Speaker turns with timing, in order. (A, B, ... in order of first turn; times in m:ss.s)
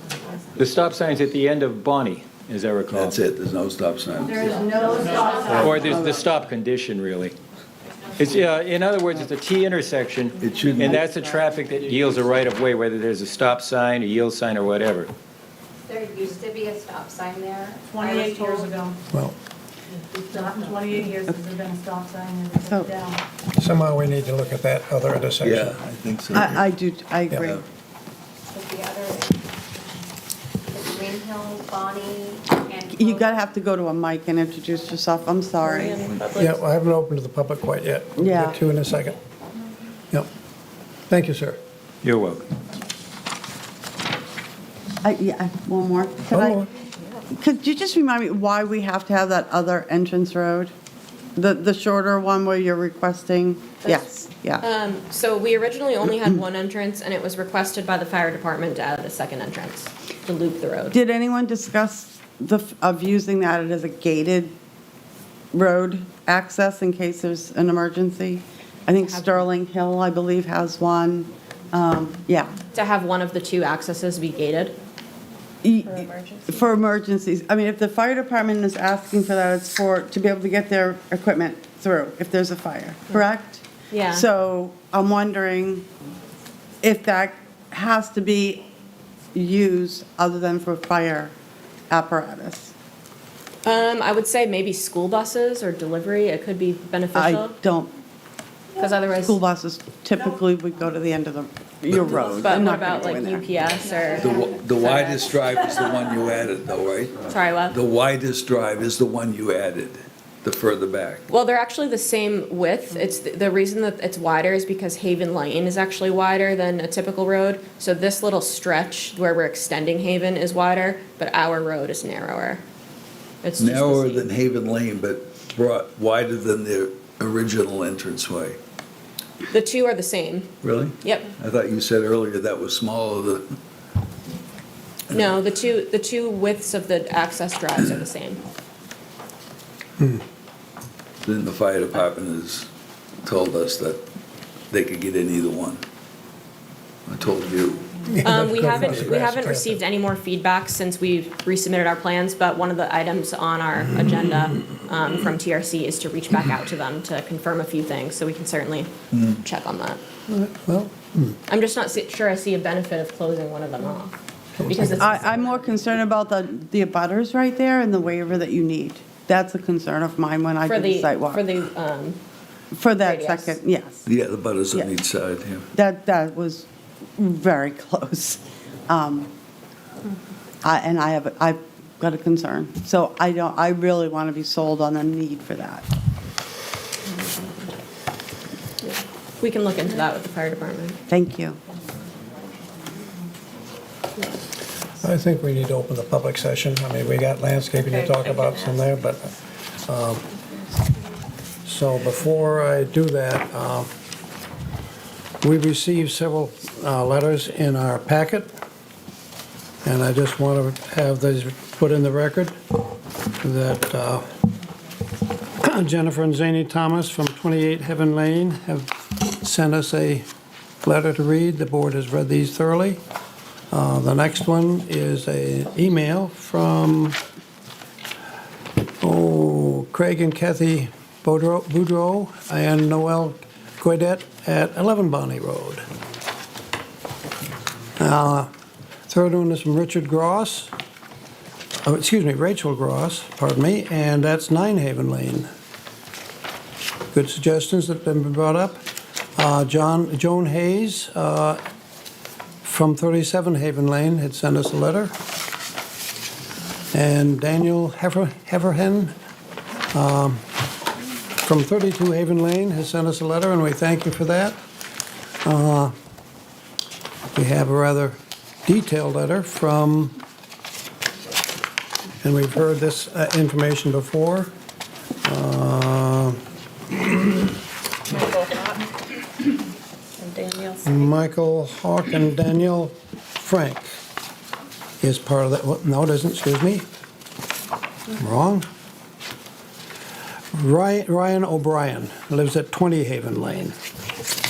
0:00.6-0:03.2 A
0:02.9-0:04.6 B
0:04.3-0:05.7 C
0:05.5-0:07.4 A
0:05.5-0:05.8 B
0:05.6-0:06.2 D
0:08.2-0:15.1 A
0:10.4-0:11.0 B
0:10.8-0:11.8 D
0:15.9-0:18.8 C
0:17.9-0:19.0 E
0:19.1-0:19.4 F
0:20.1-0:23.2 E
0:22.6-0:23.0 D
0:23.5-0:25.8 F
0:25.4-0:26.7 B
0:26.3-0:27.6 D
0:27.3-0:27.5 F
0:27.4-0:27.6 B
0:28.5-0:29.4 C
0:30.7-0:33.4 C
0:32.9-0:36.3 D
0:35.6-0:36.6 C
0:36.3-0:39.2 F
0:38.2-0:38.6 D
0:41.1-0:41.6 F
0:42.0-0:42.4 A
0:45.0-0:46.7 D
0:46.3-0:46.7 F
0:47.3-0:50.7 D
0:51.4-0:54.6 D
0:53.8-1:01.0 G
1:00.9-1:04.5 D
1:05.5-1:12.5 D
1:09.0-1:09.3 G
1:12.7-1:14.8 G
1:15.6-1:25.9 D
1:16.0-1:16.4 C
1:23.9-1:24.3 G
1:26.8-1:28.7 D
1:29.3-1:31.3 D
1:31.9-1:32.7 D
1:33.6-1:37.6 G
1:37.2-1:37.9 D
1:38.8-1:39.4 G
1:39.3-1:43.5 D
1:42.0-1:45.3 G
1:44.2-1:51.2 B
1:47.3-1:47.8 G
1:51.3-2:02.6 G
2:03.4-2:04.3 G
2:03.6-2:08.6 B
2:09.5-2:11.3 G
2:10.6-2:13.5 B
2:15.1-2:18.4 G
2:21.2-2:22.7 B
2:23.2-2:24.0 B
2:24.7-2:25.8 B
2:27.1-2:29.2 B
2:28.1-2:29.8 F
2:28.2-2:40.0 G
2:39.1-2:39.4 B
2:40.3-2:41.4 F
2:41.5-2:44.1 G
2:44.6-2:45.2 F
2:44.6-2:45.5 G
2:44.9-2:51.4 D
2:50.6-2:52.2 G
2:52.7-2:54.0 D
2:53.0-2:53.6 G
2:54.0-2:55.7 B
2:55.7-2:56.7 D
2:57.2-2:59.3 D
3:00.6-3:05.8 D
3:08.8-3:11.0 G
3:11.1-3:11.6 D
3:15.0-3:20.2 F
3:21.6-3:23.9 F
3:25.4-3:28.5 F
3:29.8-3:32.6 F
3:33.4-3:34.2 F
3:35.6-3:40.2 F
3:40.8-3:43.0 F
3:43.7-3:47.2 F
3:49.0-3:55.8 F
3:58.0-3:58.5 F
3:59.1-4:00.7 F
4:01.8-4:05.5 F
4:07.1-4:08.8 F
4:09.4-4:11.6 F
4:12.6-4:15.2 F
4:16.9-4:19.1 F
4:19.9-4:20.4 F
4:21.4-4:24.6 F
4:25.4-4:25.9 F
4:27.3-4:30.2 F
4:32.2-4:34.5 F
4:35.2-4:36.4 F
4:38.1-4:38.8 C
4:40.2-4:40.8 C
4:40.8-4:43.9 F
4:45.0-4:46.9 F
4:48.2-4:48.7 F
4:50.5-4:53.7 F